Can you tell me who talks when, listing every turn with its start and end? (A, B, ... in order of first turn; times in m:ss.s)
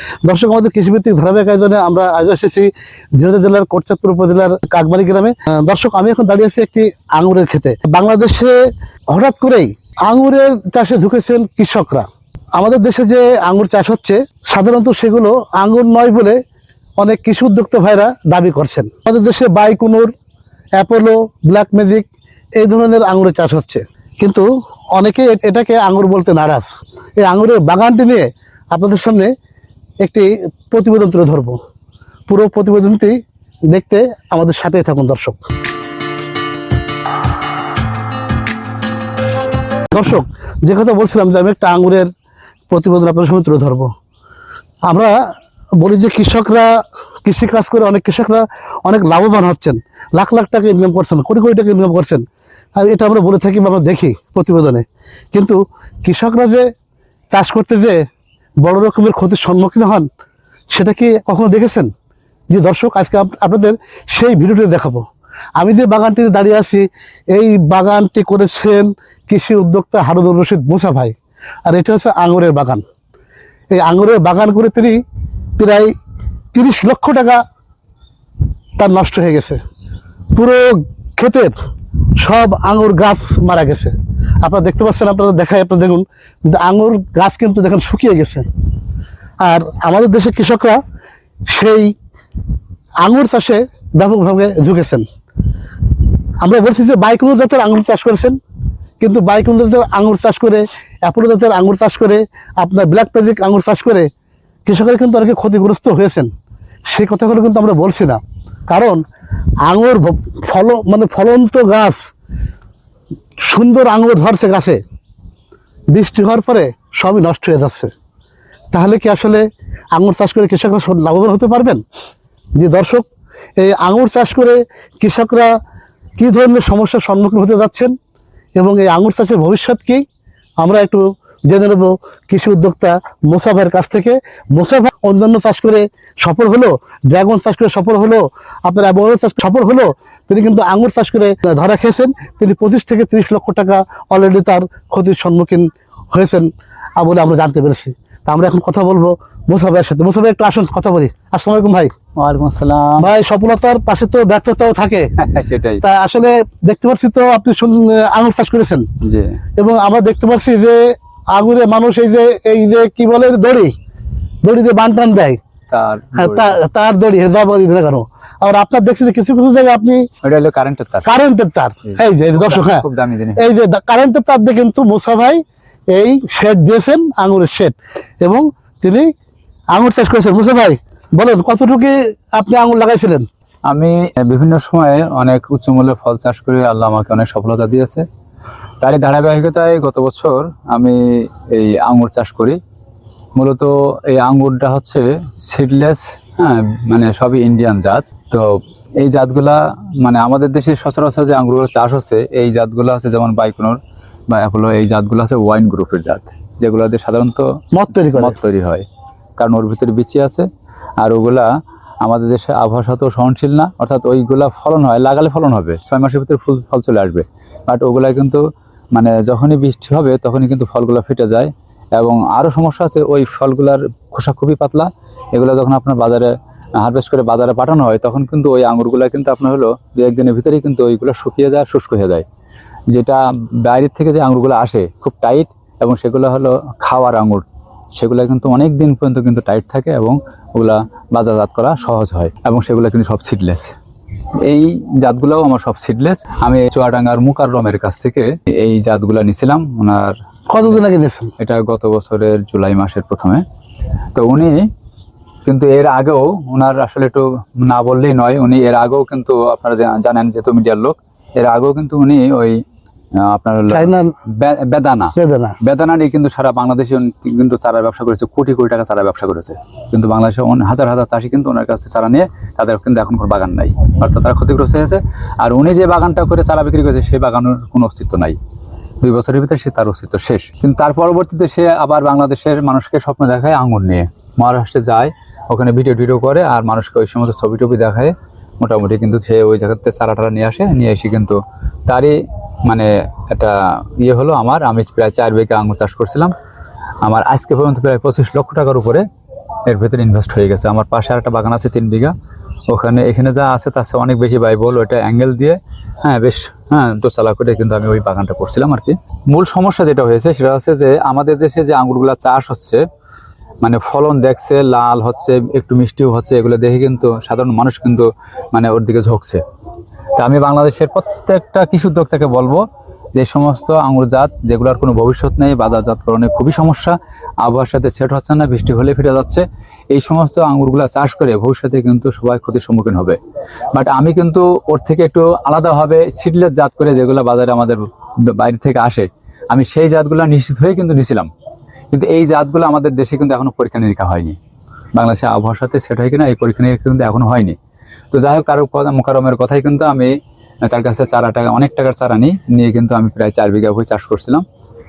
0:00.2-0:08.6 A
0:09.1-0:16.4 A
0:17.0-0:20.1 A
0:20.8-0:22.1 A
0:22.6-0:26.7 A
0:27.2-0:29.3 A
0:30.0-0:31.6 A
0:32.3-0:33.2 A
0:33.7-0:35.4 A
0:39.9-0:42.1 A
0:42.7-0:43.9 A
0:44.9-0:45.2 A
0:45.8-0:46.7 A
0:47.2-0:52.2 A
0:52.8-0:56.7 A
0:57.3-0:58.0 A
0:58.6-1:00.1 A
1:00.7-1:01.9 A
1:02.5-1:05.0 A
1:05.6-1:12.8 A
1:13.7-1:15.0 A
1:15.6-1:15.9 A
1:16.5-1:17.4 A
1:18.8-1:19.6 A
1:20.3-1:21.5 A
1:22.2-1:28.5 A
1:29.4-1:30.8 A
1:31.5-1:31.9 A
1:33.0-1:35.1 A
1:36.4-1:38.4 A
1:39.0-1:44.1 A
1:44.7-1:46.3 A
1:46.9-1:49.0 A
1:49.6-1:52.0 A
1:53.4-1:54.8 A
1:55.9-1:57.9 A
1:58.7-2:01.8 A
2:02.6-2:03.1 A
2:03.6-2:05.5 A
2:06.2-2:07.9 A
2:08.6-2:10.0 A
2:10.6-2:31.9 A
2:32.2-2:33.1 B
2:33.0-2:35.1 A
2:35.2-2:35.8 B
2:35.8-2:38.9 A
2:39.0-2:39.4 B
2:39.6-2:40.8 A
2:41.3-2:43.7 A
2:44.4-2:45.4 A
2:45.7-2:46.6 B
2:46.2-2:50.0 A
2:50.2-2:51.2 B
2:51.0-2:52.8 A
2:51.8-2:53.5 B
2:53.4-2:55.4 A
2:55.9-2:59.1 A
2:59.7-3:03.3 A
3:03.7-3:08.0 B
3:08.8-3:12.6 B
3:13.4-3:18.5 B
3:19.0-3:23.8 B
3:24.3-3:27.5 B
3:27.8-3:28.4 A
3:28.1-3:28.8 B
3:29.4-3:30.5 B
3:31.0-3:31.5 B
3:32.0-3:38.4 B
3:39.0-3:52.2 B
3:52.9-4:03.7 B
4:04.4-4:10.8 B
4:10.5-4:11.3 A
4:11.4-4:13.4 B
4:14.2-4:14.7 B
4:15.4-4:22.6 B
4:23.2-4:38.4 B
4:23.7-4:24.1 A
4:25.2-4:25.6 A
4:39.0-4:56.3 B
4:57.0-4:59.0 B
4:59.7-5:02.1 B
5:02.7-5:12.8 B
5:13.6-5:19.4 B
5:20.2-5:22.6 B
5:23.2-5:33.2 B
5:33.8-5:41.3 B
5:41.9-5:44.4 B
5:45.0-5:47.6 B
5:48.1-5:50.1 B
5:50.6-5:54.4 B